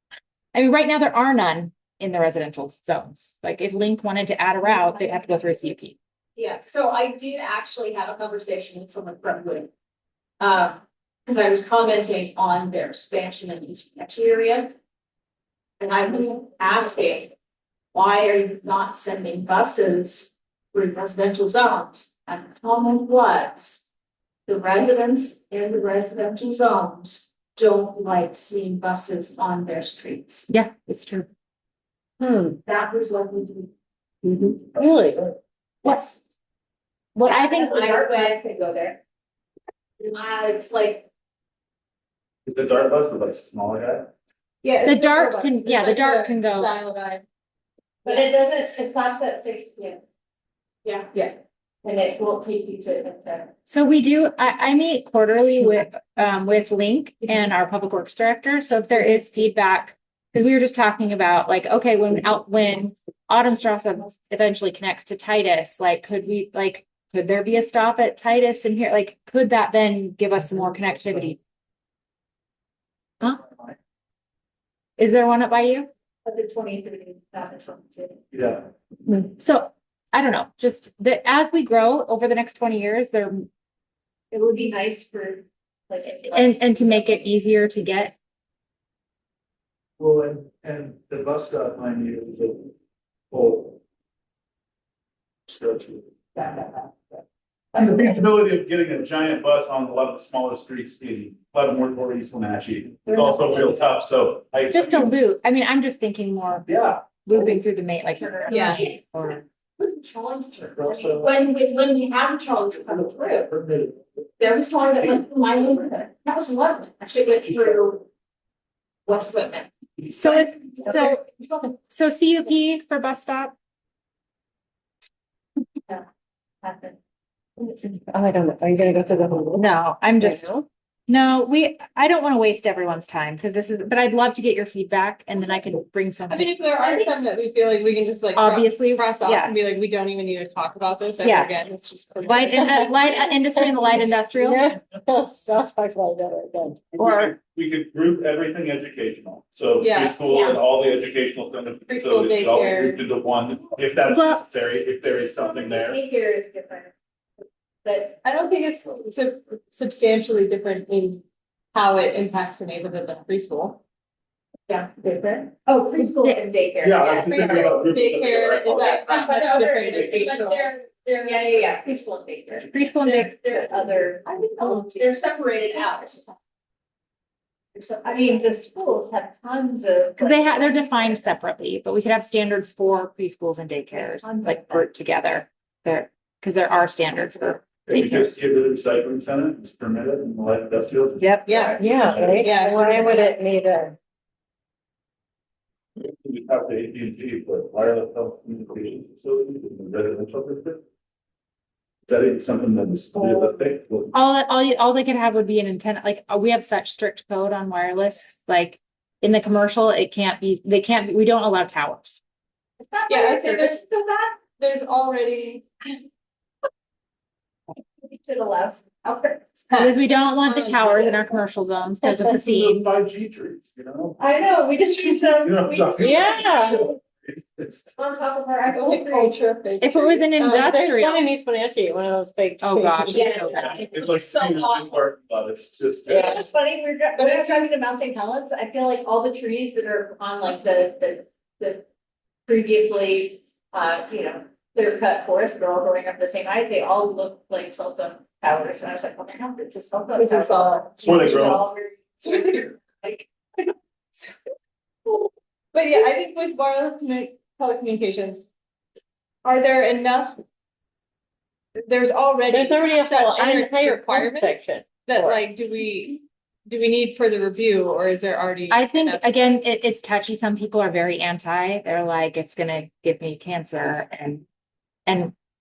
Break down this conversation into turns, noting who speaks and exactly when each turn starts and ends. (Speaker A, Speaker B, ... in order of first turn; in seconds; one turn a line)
Speaker A: 0.5-6.0
Speaker B: 6.3-9.7
Speaker B: 10.4-14.7
Speaker B: 15.8-17.3
Speaker B: 17.9-23.8
Speaker B: 24.5-30.5
Speaker A: 30.5-31.3
Speaker C: 32.2-32.6
Speaker B: 32.6-33.7
Speaker C: 34.2-35.3
Speaker B: 35.8-36.1
Speaker A: 37.1-38.3
Speaker B: 37.2-39.0
Speaker B: 40.0-41.0
Speaker D: 42.4-44.1
Speaker E: 44.6-47.2
Speaker A: 44.8-46.7
Speaker B: 48.0-50.0
Speaker B: 50.8-51.1
Speaker B: 51.8-53.5
Speaker A: 53.7-71.4
Speaker A: 75.0-75.9
Speaker B: 76.2-78.2
Speaker D: 78.3-78.6
Speaker A: 79.0-83.5
Speaker B: 84.3-87.3
Speaker A: 86.2-88.1
Speaker D: 90.0-92.7
Speaker D: 93.3-93.8
Speaker D: 95.5-96.7
Speaker D: 97.7-105.1
Speaker A: 104.7-109.4
Speaker D: 106.7-107.0
Speaker B: 108.2-109.0
Speaker E: 108.5-108.9
Speaker B: 109.8-113.5
Speaker D: 110.8-111.3
Speaker D: 113.5-114.0
Speaker B: 114.4-118.0
Speaker B: 119.0-119.7
Speaker A: 120.1-121.2
Speaker B: 120.2-121.7
Speaker A: 121.8-123.5
Speaker B: 126.6-127.0
Speaker C: 127.6-129.6
Speaker A: 129.6-130.5
Speaker C: 130.2-130.6
Speaker A: 131.1-136.5
Speaker E: 136.3-142.9
Speaker A: 138.3-139.5
Speaker A: 141.2-141.5
Speaker A: 142.2-144.7
Speaker C: 142.5-143.8
Speaker C: 144.3-146.9
Speaker A: 147.0-147.3
Speaker D: 147.0-156.0
Speaker E: 149.8-150.2
Speaker B: 150.3-150.6
Speaker E: 151.9-153.0
Speaker A: 154.1-154.4
Speaker B: 155.4-156.9
Speaker B: 157.8-158.2
Speaker E: 158.2-161.2
Speaker E: 161.7-163.8
Speaker C: 165.0-165.5
Speaker B: 165.6-167.9
Speaker A: 165.9-166.4
Speaker D: 166.8-169.3
Speaker E: 167.9-170.7
Speaker B: 168.8-176.2
Speaker A: 172.6-173.6
Speaker E: 174.2-175.1
Speaker B: 177.7-181.2
Speaker A: 180.2-188.4
Speaker B: 183.9-184.9
Speaker D: 187.9-192.5
Speaker C: 191.2-193.9
Speaker E: 191.4-191.8
Speaker E: 192.4-193.1
Speaker D: 196.0-200.8
Speaker D: 202.1-204.1
Speaker A: 204.1-212.2
Speaker B: 212.8-214.4
Speaker E: 213.1-213.8
Speaker E: 214.5-215.9
Speaker B: 218.0-219.4
Speaker A: 219.8-222.8
Speaker E: 220.4-221.0
Speaker D: 222.4-224.2
Speaker B: 224.2-226.9
Speaker D: 225.4-227.9
Speaker C: 226.0-226.9
Speaker A: 226.0-226.8
Speaker B: 227.9-229.4
Speaker E: 228.7-230.6
Speaker A: 229.8-231.2
Speaker C: 230.4-233.8
Speaker A: 232.6-233.8
Speaker B: 233.1-234.9
Speaker D: 233.7-236.4
Speaker C: 236.1-236.3
Speaker B: 236.1-241.8
Speaker E: 236.1-236.4
Speaker E: 237.2-237.7
Speaker B: 242.4-253.7
Speaker E: 250.1-251.4
Speaker D: 251.0-251.7
Speaker E: 252.2-252.6
Speaker E: 255.7-258.4
Speaker E: 259.4-260.4
Speaker E: 261.8-269.3
Speaker C: 262.5-265.4
Speaker A: 268.7-274.4
Speaker A: 275.1-275.3